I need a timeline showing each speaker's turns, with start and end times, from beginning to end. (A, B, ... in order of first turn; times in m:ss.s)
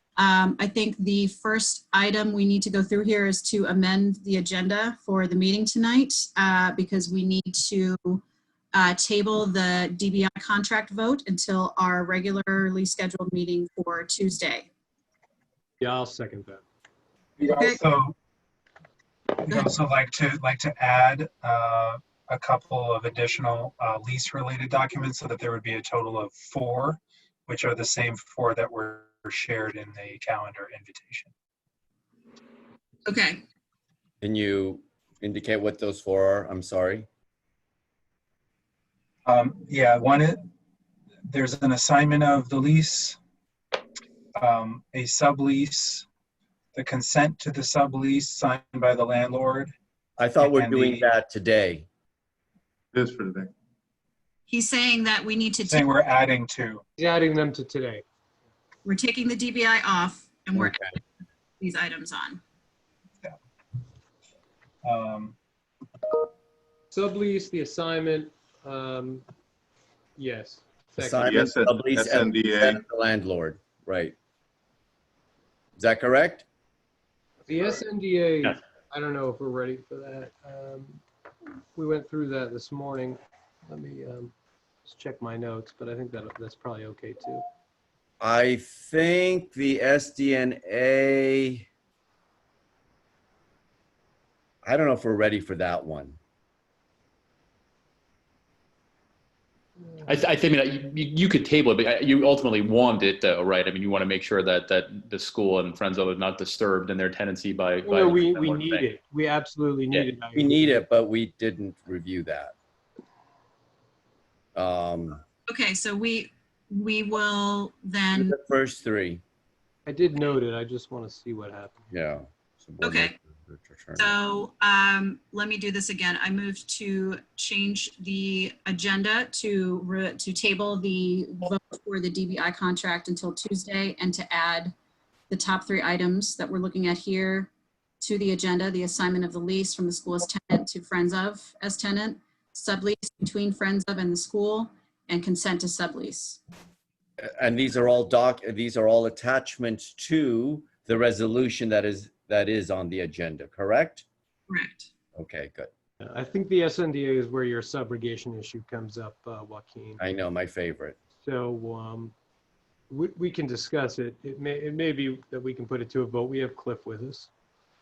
0:00.2-0:14.7 A
0:15.8-0:16.6 B
0:17.4-0:18.1 C
0:19.4-0:31.3 C
0:33.0-0:33.4 A
0:34.2-0:37.1 D
0:39.2-0:40.4 C
0:41.3-0:43.2 C
0:44.4-0:46.0 C
0:46.7-0:49.7 C
0:50.2-0:51.8 D
0:50.4-0:51.0 C
0:52.9-0:53.5 E
0:54.5-0:55.9 A
0:55.6-0:56.8 C
0:57.0-0:58.0 B
0:58.8-1:00.8 A
1:00.6-1:00.8 D
1:01.6-1:02.4 A
1:04.8-1:05.4 C
1:06.9-1:09.2 B
1:10.2-1:11.6 B
1:11.0-1:14.1 D
1:11.2-1:12.8 E
1:15.8-1:16.4 D
1:17.5-1:21.0 B
1:21.7-1:24.3 B
1:24.8-1:27.4 B
1:28.2-1:31.6 D
1:34.6-1:36.2 D
1:40.0-1:48.9 F
1:47.8-1:50.8 B
1:50.3-1:52.5 D
1:54.5-1:55.2 D
1:55.5-1:58.4 A
1:58.1-1:59.2 D
1:59.8-2:01.8 B
2:01.9-2:04.1 D
2:02.8-2:03.1 A
2:04.0-2:14.7 A
2:15.3-2:26.4 A
2:27.2-2:34.0 D
2:34.5-2:34.9 A
2:35.1-2:35.7 D
2:36.0-2:40.0 B
2:40.0-2:41.0 D
2:41.2-2:42.1 B
2:42.9-2:47.3 B